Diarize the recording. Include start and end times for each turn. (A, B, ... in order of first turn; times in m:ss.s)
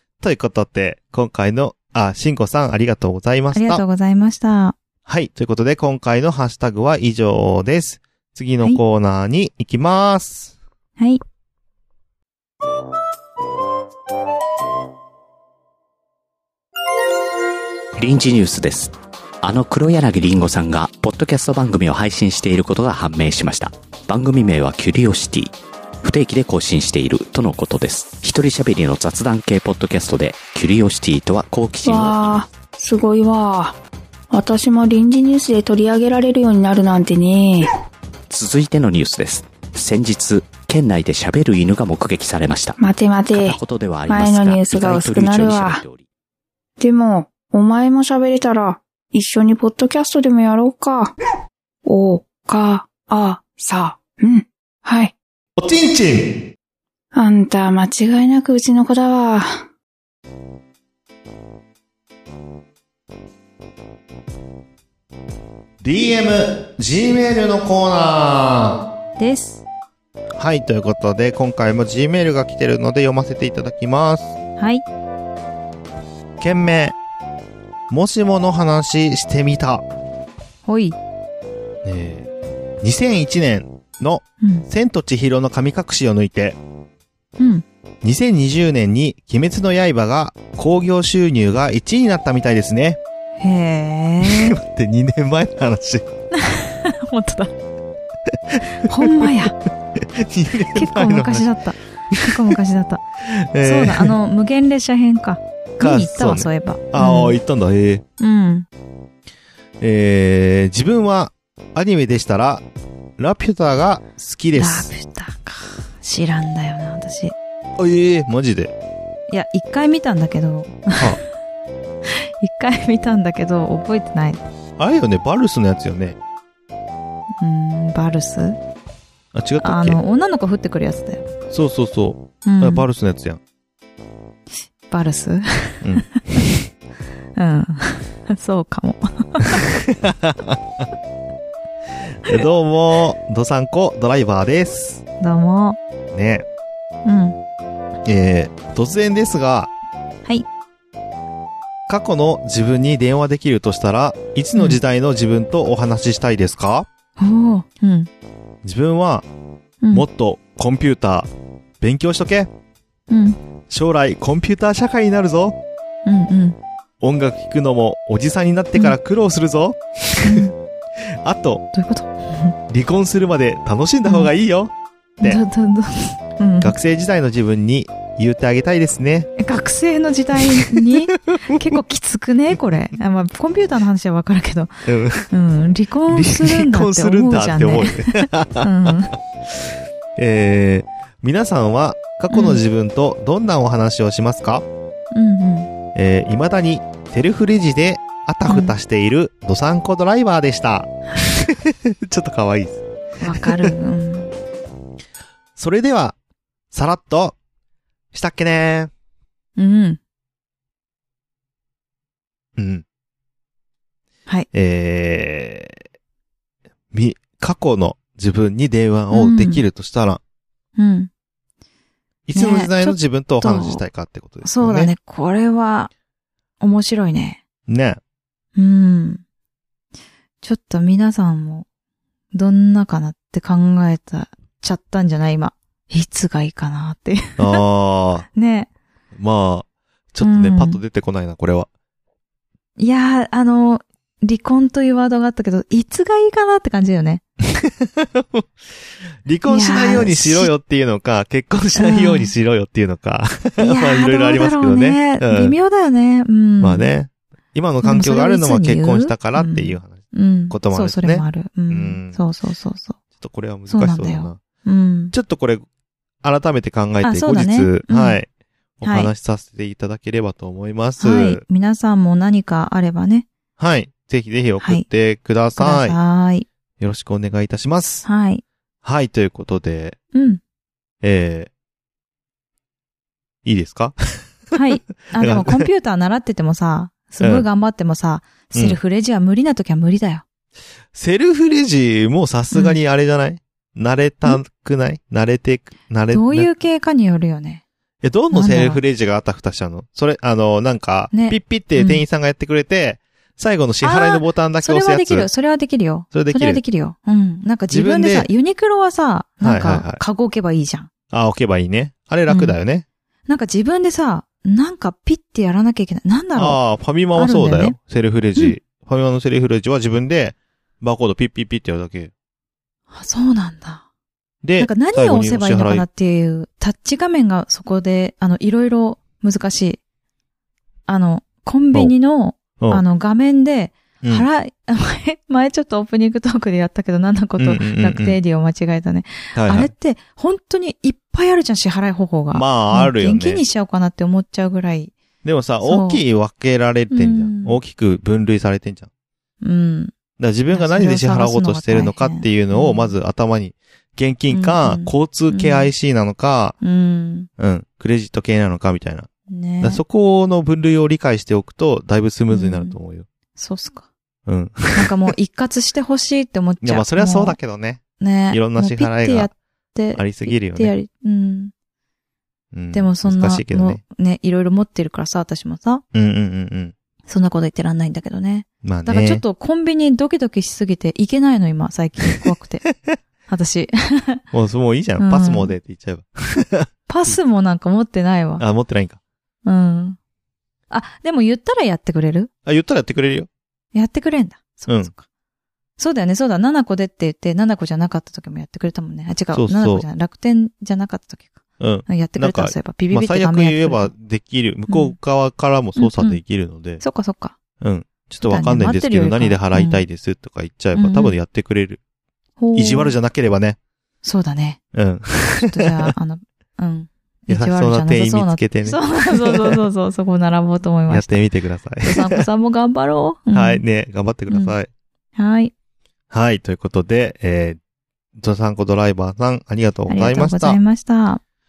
0:00.2-0:03.8 A
0:03.5-0:04.8 B
0:05.0-0:10.5 A
0:18.0-0:32.3 C
0:31.8-0:33.8 D
0:34.3-0:37.7 D
0:38.3-0:42.8 C
0:42.8-0:45.8 D
0:43.3-0:46.0 C
0:46.8-0:51.1 D
0:51.8-0:55.1 D
0:55.6-0:56.3 A
0:57.1-0:59.6 D
1:05.8-1:08.8 A
1:09.2-1:09.6 B
1:10.4-1:14.4 A
1:14.6-1:14.8 B
1:16.4-1:17.0 A
1:17.9-1:19.8 A
1:20.6-1:21.0 B
1:21.8-1:22.3 A
1:22.8-1:26.6 A
1:27.4-1:27.6 B
1:28.0-1:33.0 A
1:33.4-1:34.6 B
1:34.2-1:36.1 A
1:36.3-1:37.5 B
1:38.5-1:39.5 A
1:38.8-1:39.5 B
1:40.0-1:41.5 A
1:40.7-1:43.0 B
1:42.1-1:42.6 A
1:43.3-1:44.1 A
1:43.6-1:47.4 B
1:45.8-1:48.0 A
1:48.2-1:48.7 B
1:49.8-1:52.6 A
1:53.2-1:54.9 A
1:54.5-1:57.3 B
1:57.8-1:58.7 A
1:59.3-2:01.2 B
2:02.4-2:04.4 B
2:04.8-2:06.2 A
2:07.4-2:08.6 B
2:09.3-2:10.0 A
2:09.6-2:11.2 B
2:11.5-2:13.4 A
2:12.4-2:12.8 B
2:14.9-2:16.4 B
2:15.8-2:16.6 A
2:17.4-2:19.6 B
2:19.5-2:20.6 A
2:22.2-2:25.0 A
2:25.2-2:25.8 B
2:26.1-2:26.4 A
2:27.0-2:27.4 B
2:28.0-2:29.7 A
2:31.9-2:36.9 A
2:34.6-2:34.8 B
2:37.2-2:38.1 B
2:38.6-2:39.2 A
2:39.9-2:41.3 A
2:41.8-2:42.5 A
2:43.1-2:43.4 B
2:43.7-2:45.6 A
2:46.0-2:46.6 B
2:47.0-2:50.5 A
2:50.2-2:50.5 B
2:51.2-2:51.6 A
2:51.7-2:52.5 B
2:52.7-2:55.4 A
2:54.0-2:54.3 B
2:55.2-2:56.7 B
2:56.6-2:59.3 A
2:59.4-3:04.7 B
3:00.4-3:00.9 A
3:01.5-3:01.7 A
3:04.8-3:05.3 A
3:05.3-3:09.1 B
3:06.1-3:09.0 A
3:10.2-3:14.6 A
3:12.3-3:12.6 B
3:15.1-3:15.7 B
3:15.9-3:23.7 A
3:18.5-3:18.7 B
3:23.2-3:24.3 B
3:25.6-3:26.2 A
3:26.7-3:27.4 A
3:28.1-3:28.9 A
3:29.6-3:30.0 B
3:32.6-3:32.8 A
3:34.5-3:35.8 A
3:36.9-3:40.2 A
3:39.1-3:39.6 B
3:40.8-3:41.1 B
3:42.3-3:44.9 A
3:42.3-3:43.8 B
3:44.4-3:45.9 B
3:46.6-3:47.4 B
3:47.7-3:48.0 A
3:48.6-3:49.2 B
3:50.4-3:51.6 B
3:52.3-3:57.6 B
3:57.4-3:58.2 A
3:58.3-3:58.7 B
3:59.1-4:01.7 A
4:00.2-4:00.8 B
4:02.8-4:07.2 B
4:07.5-4:08.5 A
4:09.2-4:15.6 A
4:09.5-4:10.5 B
4:11.8-4:12.3 B
4:13.6-4:16.9 B
4:16.6-4:22.2 A
4:17.8-4:23.0 B
4:23.2-4:24.4 A
4:23.7-4:25.1 B
4:25.1-4:25.6 A
4:26.2-4:28.3 A
4:27.0-4:28.2 B
4:28.8-4:31.4 A
4:28.8-4:29.1 B
4:31.0-4:33.3 B
4:33.6-4:36.0 A
4:34.6-4:34.8 B
4:35.5-4:36.4 B
4:36.8-4:38.1 A
4:38.0-4:38.4 B
4:38.8-4:40.0 A
4:40.1-4:40.4 B
4:41.0-4:41.5 A
4:43.4-4:44.6 A
4:44.5-4:50.2 B
4:45.1-4:45.6 A
4:47.2-4:47.4 A
4:48.5-4:48.8 A
4:50.9-4:56.5 A
4:52.5-4:52.8 B
4:56.1-4:57.6 B
4:58.0-5:05.3 A
4:58.3-4:58.8 B
5:01.1-5:02.0 B
5:03.8-5:10.9 B
5:06.1-5:06.6 A
5:07.7-5:08.3 A
5:09.4-5:10.0 A
5:11.1-5:12.8 A
5:12.3-5:12.6 B
5:13.3-5:16.6 B
5:16.4-5:22.1 A
5:17.1-5:17.8 B
5:22.9-5:23.8 B
5:24.4-5:25.8 A
5:24.6-5:29.8 B
5:30.9-5:44.9 B
5:32.6-5:32.8 A
5:34.0-5:34.3 A
5:37.4-5:38.2 A
5:39.3-5:39.7 A
5:42.3-5:43.4 A
5:45.2-5:48.9 A
5:45.6-5:46.0 B
5:46.9-5:47.6 B
5:49.4-5:49.9 B
5:50.2-5:56.6 A
5:50.5-5:53.0 B
5:54.3-5:55.7 B
5:56.6-5:57.3 B
5:57.4-5:59.1 A
5:59.3-5:59.8 B
5:59.6-6:03.0 A
6:02.3-6:02.8 B
6:03.4-6:03.9 B
6:04.2-6:05.1 A
6:04.7-6:07.4 B
6:06.6-6:09.3 A
6:08.0-6:11.5 B
6:09.9-6:10.7 A
6:12.5-6:13.8 A
6:12.7-6:15.8 B
6:15.9-6:16.7 A
6:17.1-6:22.6 B
6:18.6-6:19.2 A
6:23.3-6:24.2 B
6:24.3-6:27.2 A
6:25.0-6:25.5 B
6:26.9-6:28.4 B
6:28.4-6:29.0 A
6:29.4-6:30.0 B
6:30.7-6:32.3 B
6:32.4-6:33.3 A
6:33.7-6:35.0 B
6:34.7-6:34.9 A
6:35.8-6:43.9 B
6:39.3-6:39.8 A
6:41.6-6:46.8 A
6:44.7-6:45.0 B
6:45.8-6:46.2 B
6:46.8-6:47.4 B
6:47.6-6:51.8 A
6:48.2-6:49.8 B
6:50.7-6:51.1 B
6:52.4-6:52.9 B
6:52.5-6:53.6 A
6:54.0-6:54.6 B
6:54.7-6:55.9 A
6:55.4-7:01.2 B
6:57.3-6:59.6 A
7:00.9-7:02.2 A
7:01.8-7:03.6 B
7:03.3-7:04.7 A
7:04.3-7:04.5 B
7:05.2-7:05.5 B
7:06.1-7:07.6 A
7:08.2-7:10.6 A
7:09.9-7:11.2 B